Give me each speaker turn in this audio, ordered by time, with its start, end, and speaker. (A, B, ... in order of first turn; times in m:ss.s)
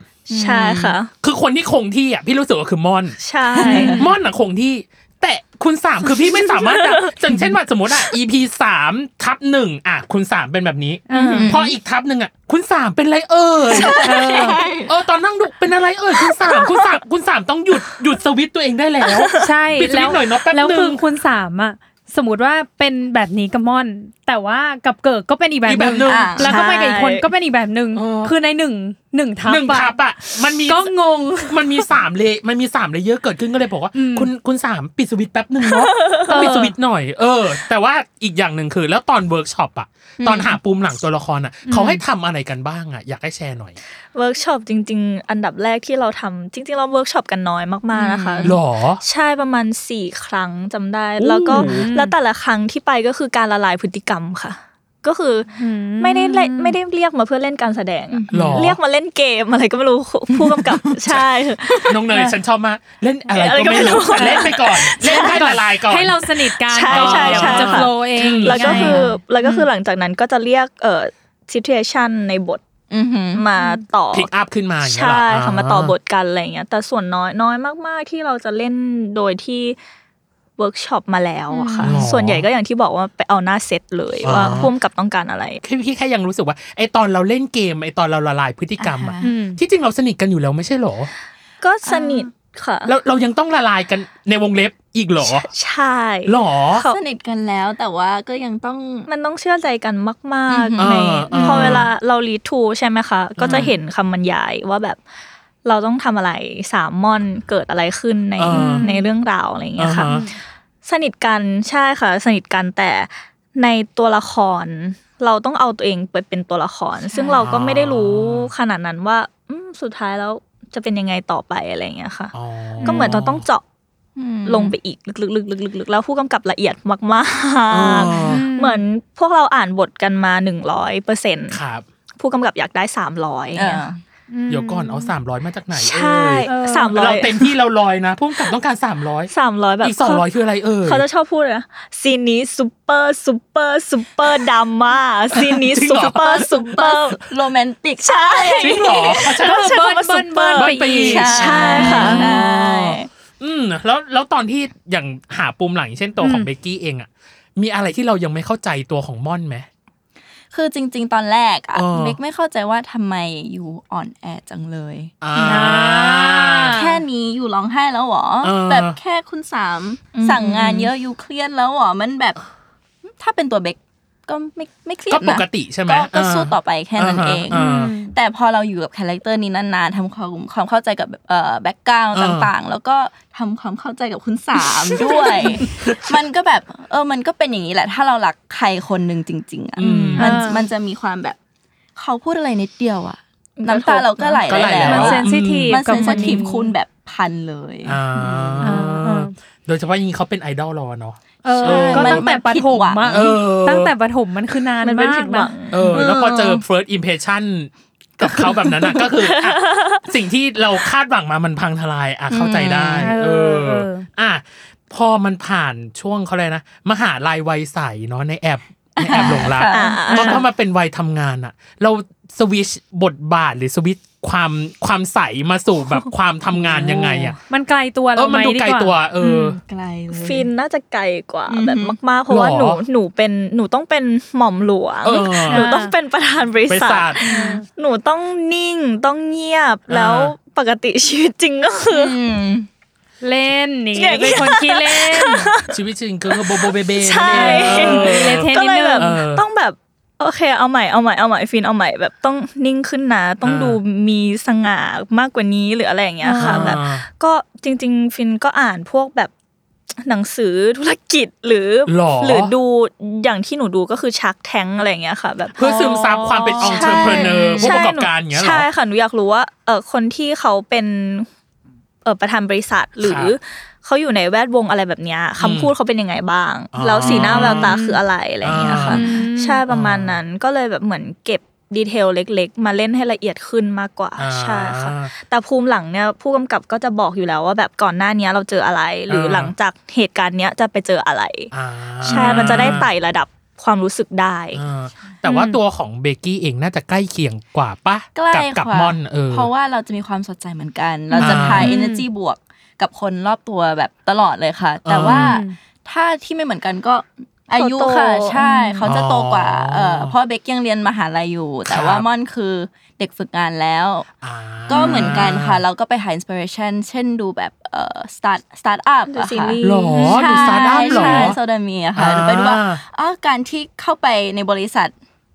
0:00.3-0:01.0 A
0:00.3-0:01.1 B
0:01.2-0:03.2 C
0:03.2-0:04.0 B
0:03.6-0:04.0 A
0:03.6-0:04.1 D
0:03.8-0:21.0 C
0:11.1-0:11.5 D
0:11.1-0:11.5 B
0:11.3-0:11.8 A
0:13.7-0:14.9 A
0:13.8-0:14.6 D
0:19.4-0:29.9 D
0:25.6-0:26.3 C
0:25.8-0:26.6 A
0:26.4-0:27.2 B
0:27.9-0:28.4 C
0:29.4-0:30.9 C
0:30.7-0:31.9 D
0:31.5-0:43.8 C
0:33.9-0:34.3 D
0:35.9-0:36.4 B
0:36.3-0:36.7 D
0:40.2-0:40.6 A
0:41.7-0:42.0 D
0:44.1-1:01.8 B
0:47.9-0:48.6 A
0:48.4-0:49.0 C
0:51.2-0:51.9 C
0:51.5-0:52.1 D
0:55.6-0:56.8 D
0:58.1-0:58.6 A
0:58.3-0:58.8 C
1:01.8-1:06.2 C
1:02.1-1:02.3 D
1:03.3-1:05.4 B
1:03.8-1:09.7 D
1:06.6-1:12.6 B
1:06.9-1:09.0 C
1:12.9-1:13.4 A
1:13.3-1:14.3 B
1:13.6-1:13.8 D
1:14.1-1:15.9 C
1:14.8-1:19.8 B
1:20.6-1:25.6 B
1:21.5-1:22.0 D
1:21.8-1:22.4 C
1:24.2-1:24.7 C
1:24.3-1:24.7 A
1:25.6-1:31.1 C
1:28.8-1:29.4 A
1:29.2-1:29.6 D
1:31.6-1:32.9 B
1:31.8-1:32.3 A
1:32.8-1:35.5 C
1:35.2-1:37.0 B
1:36.2-1:36.8 C
1:36.9-1:39.1 A
1:39.1-1:45.0 B
1:40.5-1:41.8 A
1:40.8-1:41.9 C
1:41.3-1:41.8 D
1:43.4-1:43.7 C
1:45.6-1:50.1 B
1:48.4-1:48.8 C
1:48.5-1:49.0 D
1:49.8-1:50.2 C
1:50.1-1:50.3 D
1:50.8-2:03.6 B
1:57.1-1:57.5 A
1:57.4-1:58.5 C
2:02.3-2:03.4 C
2:02.8-2:03.2 D
2:04.2-2:04.8 A
2:04.4-2:11.6 B
2:07.7-2:08.4 C
2:08.2-2:08.8 D
2:11.5-2:11.8 C
2:12.2-2:13.8 B
2:13.5-2:14.0 A
2:14.3-2:15.1 D
2:14.5-2:21.0 C
2:15.7-2:17.4 B
2:16.4-2:17.1 D
2:19.3-2:20.2 B
2:20.8-2:27.2 B
2:25.5-2:26.5 C
2:26.2-2:29.2 A
2:28.0-2:32.2 B
2:28.6-2:29.9 C
2:29.4-2:32.5 D
2:30.5-2:39.7 C
2:31.0-2:33.1 A
2:36.2-2:36.5 D
2:40.5-2:45.6 A
2:41.7-2:42.2 C
2:45.2-2:46.8 C
2:45.4-2:47.0 D
2:46.7-2:52.4 A
2:48.4-2:49.0 C
2:50.1-2:50.8 B
2:53.0-3:11.4 A
2:55.1-2:57.9 C
2:57.5-2:58.1 D
3:02.1-3:02.5 C
3:09.8-3:10.5 C
3:10.2-3:10.6 D
3:12.0-3:18.8 A
3:13.6-3:14.8 B
3:14.5-3:16.2 C
3:14.8-3:16.7 D
3:17.8-3:22.2 C
3:18.6-3:19.3 D
3:21.4-3:25.8 D
3:21.6-3:23.4 A
3:23.1-3:23.9 C
3:24.8-3:25.8 B
3:25.7-3:47.4 C
3:25.8-3:26.6 A
3:28.2-3:29.1 A
3:29.1-3:30.0 B
3:32.3-3:33.1 A
3:33.0-3:34.0 D
3:39.0-3:40.4 A
3:39.7-3:40.4 B
3:40.1-3:40.4 D
3:46.5-3:47.4 A
3:47.5-3:49.4 D
3:48.1-3:49.6 C
3:49.2-3:50.5 A
3:50.1-4:02.2 B
3:51.5-3:52.0 A
3:52.3-3:52.8 C
3:55.0-3:55.7 C
3:55.5-3:55.9 D
3:56.7-3:57.2 C
3:57.2-3:57.6 D
3:57.2-3:57.6 A
3:59.9-4:00.4 C
4:01.9-4:02.7 A
4:03.2-4:05.5 D
4:03.9-4:05.7 B
4:05.7-4:09.4 C
4:06.9-4:19.3 B
4:07.3-4:09.2 D
4:13.4-4:13.8 C
4:16.2-4:16.8 D
4:16.4-4:17.0 C
4:19.9-4:25.6 B
4:21.9-4:22.5 C
4:25.6-4:28.7 C
4:25.6-4:27.8 D
4:26.6-4:31.3 B
4:27.1-4:27.5 A
4:32.0-4:51.5 B
4:33.0-4:33.3 C
4:35.4-4:35.7 C
4:36.7-4:37.7 C
4:37.1-4:38.0 D
4:38.4-4:39.0 C
4:38.6-4:39.1 A
4:38.9-4:39.6 D
4:39.7-4:40.2 C
4:44.2-4:45.1 C
4:49.1-4:49.5 C
4:51.5-4:52.9 C
4:52.0-4:54.6 B
4:52.0-4:52.8 D
4:54.5-4:59.5 C
4:55.2-4:55.6 D
4:58.1-5:14.1 A
5:01.1-5:02.0 D
5:01.2-5:01.7 C
5:04.8-5:05.4 C
5:05.0-5:05.6 D
5:07.5-5:08.4 B
5:08.4-5:08.8 D
5:08.8-5:10.1 C
5:11.7-5:12.0 C
5:14.2-5:15.6 C
5:14.7-5:24.9 A
5:14.7-5:15.2 D
5:19.1-5:20.0 B
5:19.6-5:21.4 C
5:19.9-5:20.4 D
5:20.6-5:20.9 B
5:20.9-5:21.2 D
5:22.0-5:22.8 C